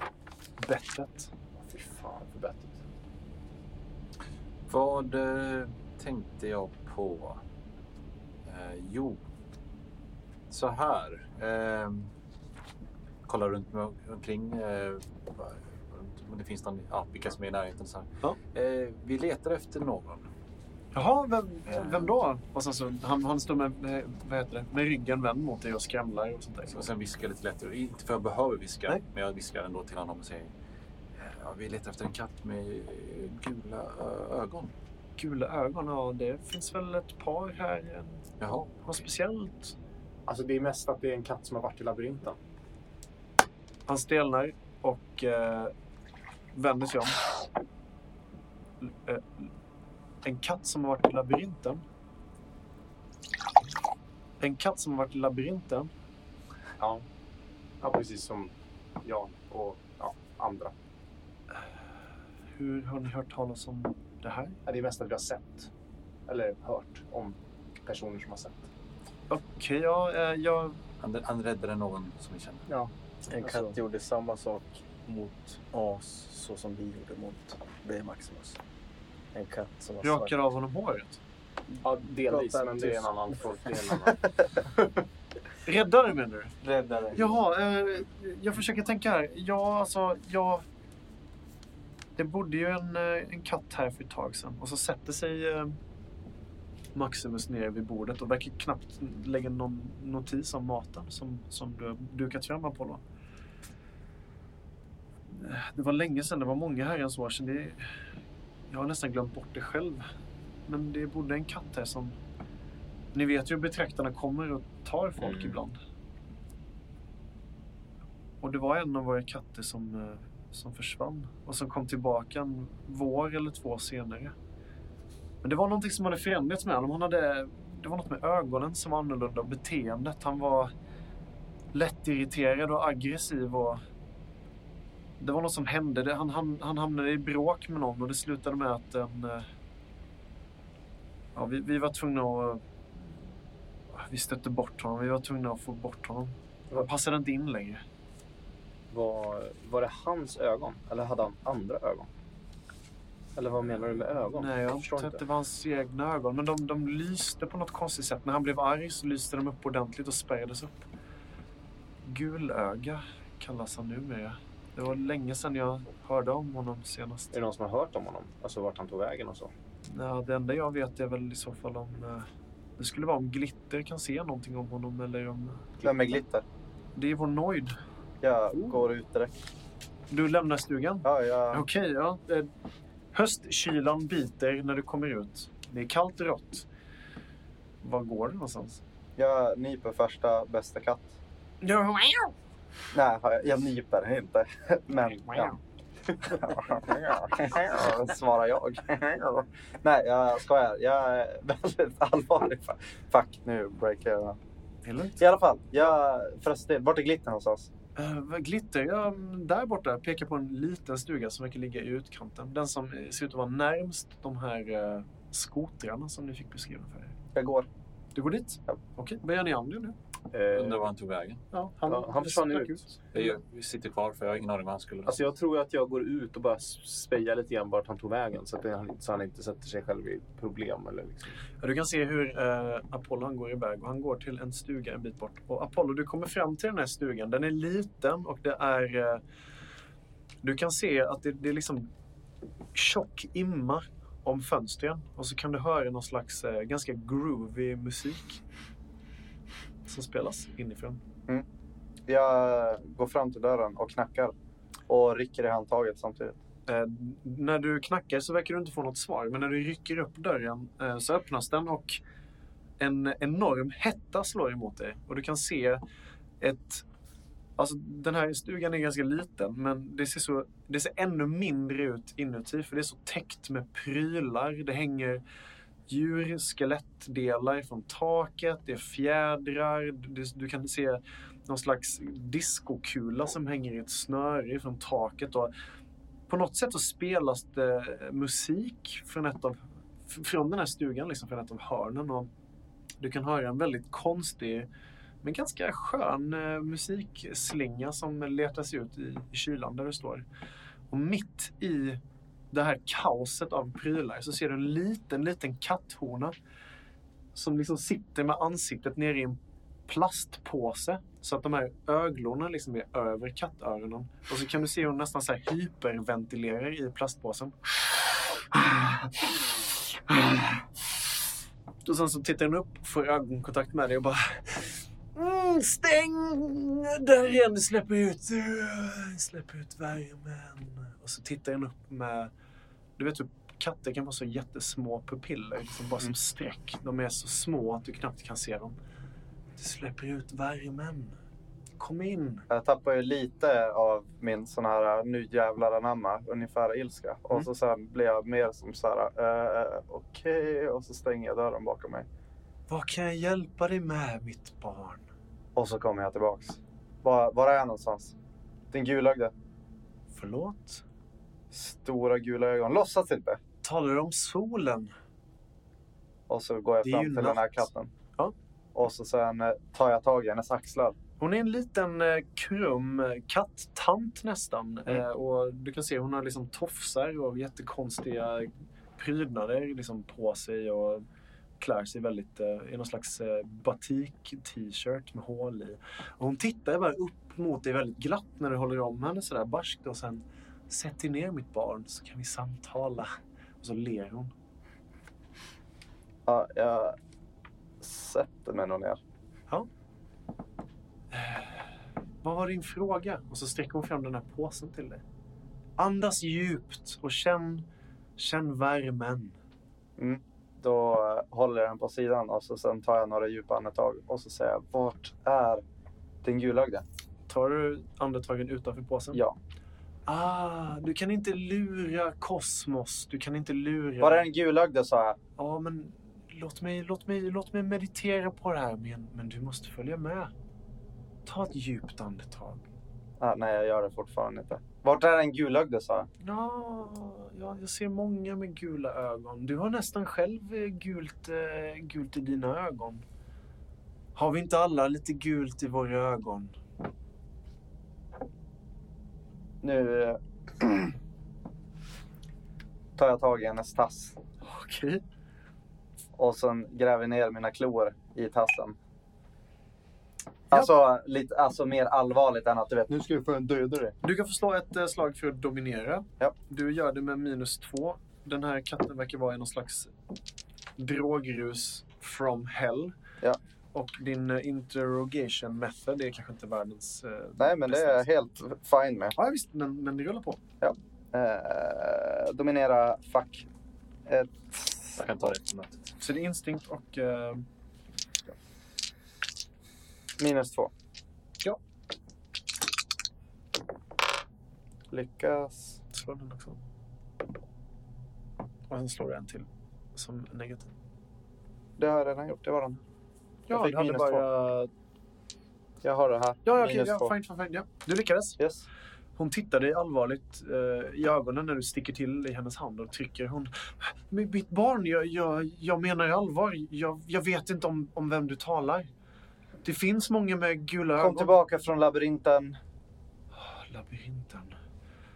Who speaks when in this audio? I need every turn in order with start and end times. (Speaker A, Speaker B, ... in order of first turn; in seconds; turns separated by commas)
Speaker A: 0.6-1.3, Speaker B: 1.6-2.8, Speaker C: 4.7-7.4, Speaker C: 8.4-9.2, Speaker C: 10.5-12.1, Speaker C: 13.2-20.3, Speaker A: 20.9-26.8, Speaker C: 21.7-22.1, Speaker C: 26.7-30.5, Speaker C: 31.2-34.7, Speaker A: 35.2-39.8, Speaker C: 38.4-38.8, Speaker B: 40.3-42.4, Speaker A: 43.9-45.7, Speaker A: 46.5-47.2, Speaker A: 48.8-49.5, Speaker A: 50.2-51.8, Speaker A: 54.4-55.9, Speaker B: 56.8-57.0, Speaker B: 57.8-60.7, Speaker A: 62.5-64.6, Speaker B: 64.7-65.7, Speaker B: 66.3-68.7, Speaker A: 69.3-70.8, Speaker C: 71.0-72.6, Speaker D: 73.3-78.6, Speaker B: 73.4-73.7, Speaker D: 79.3-80.3, Speaker A: 80.0-81.2, Speaker B: 81.8-85.0, Speaker D: 82.3-83.1, Speaker A: 85.6-86.5, Speaker D: 86.6-87.3, Speaker A: 87.1-90.6, Speaker A: 92.2-95.8, Speaker A: 96.9-103.0, Speaker A: 105.3-107.9, Speaker A: 108.7-110.0, Speaker A: 110.7-112.2, Speaker A: 113.1-115.8, Speaker B: 115.2-115.6, Speaker A: 118.4-124.3, Speaker A: 125.4-130.7, Speaker A: 131.7-133.8, Speaker A: 135.2-139.4, Speaker A: 141.3-143.2, Speaker A: 143.9-147.8, Speaker B: 148.9-152.1, Speaker B: 153.3-155.2, Speaker A: 154.3-160.8, Speaker A: 162.0-167.3, Speaker B: 167.3-169.5, Speaker A: 169.9-172.3, Speaker A: 172.8-175.7, Speaker B: 175.8-176.1, Speaker E: 175.8-176.4, Speaker A: 176.9-177.7, Speaker E: 178.2-179.3, Speaker A: 180.1-182.5, Speaker E: 181.0-181.7, Speaker A: 183.1-186.7, Speaker A: 187.8-188.8, Speaker E: 189.2-191.2, Speaker A: 191.6-192.3, Speaker E: 192.9-195.5, Speaker A: 195.2-195.6, Speaker E: 196.2-204.4, Speaker A: 204.8-205.2, Speaker E: 205.2-207.7, Speaker A: 207.9-217.1, Speaker E: 217.3-217.7, Speaker A: 218.1-219.9, Speaker B: 220.3-220.9, Speaker C: 220.5-221.4, Speaker A: 221.5-222.8, Speaker B: 221.8-223.2, Speaker C: 223.1-225.3, Speaker B: 225.1-231.4, Speaker A: 231.6-239.2, Speaker A: 240.4-241.9, Speaker A: 242.7-248.4, Speaker A: 249.8-251.0, Speaker E: 252.1-254.3, Speaker E: 254.9-256.4, Speaker A: 256.7-262.0, Speaker A: 262.8-265.8, Speaker A: 266.4-266.8, Speaker A: 267.6-275.2, Speaker A: 275.9-285.5, Speaker A: 286.3-292.3, Speaker A: 293.0-294.7, Speaker A: 295.2-300.2, Speaker A: 300.9-302.0, Speaker A: 302.5-306.3, Speaker A: 307.3-317.7, Speaker A: 318.5-319.3, Speaker A: 319.9-320.6, Speaker A: 321.8-332.3, Speaker A: 333.0-338.8, Speaker A: 339.6-341.2, Speaker A: 341.8-342.4, Speaker E: 342.5-352.1, Speaker A: 352.7-355.1, Speaker E: 355.6-358.1, Speaker E: 358.7-359.3, Speaker A: 360.1-360.8, Speaker E: 361.5-363.4, Speaker A: 363.6-364.9, Speaker E: 366.3-367.9, Speaker A: 366.8-368.3, Speaker E: 368.7-370.9, Speaker A: 371.2-381.0, Speaker A: 381.6-394.3, Speaker E: 396.2-396.9, Speaker E: 397.8-399.0, Speaker A: 401.1-401.7, Speaker A: 402.2-405.0, Speaker A: 405.8-407.6, Speaker A: 408.2-409.4, Speaker E: 410.0-415.6, Speaker E: 416.2-416.8, Speaker A: 417.3-419.2, Speaker A: 420.1-424.3, Speaker E: 424.0-425.2, Speaker A: 425.4-430.3, Speaker A: 431.2-432.7, Speaker E: 433.2-436.1, Speaker A: 436.2-443.0, Speaker A: 444.1-446.5, Speaker E: 449.6-450.9, Speaker E: 452.9-454.2, Speaker A: 454.4-455.0, Speaker E: 456.1-458.8, Speaker E: 460.5-463.9, Speaker A: 464.0-469.9, Speaker A: 470.8-472.9, Speaker A: 473.7-478.1, Speaker E: 477.4-479.1, Speaker A: 479.1-480.4, Speaker E: 480.6-483.5, Speaker E: 484.1-485.3, Speaker C: 484.9-485.9, Speaker A: 486.0-487.4, Speaker E: 490.2-490.7, Speaker E: 494.9-495.8, Speaker A: 495.9-496.6, Speaker A: 498.7-500.7, Speaker E: 501.8-502.8, Speaker A: 503.5-504.7, Speaker E: 503.5-504.3, Speaker E: 505.8-507.1, Speaker A: 506.4-508.4, Speaker E: 508.4-508.7, Speaker A: 509.1-518.9, Speaker A: 519.6-521.3, Speaker E: 521.0-522.6, Speaker A: 523.3-524.6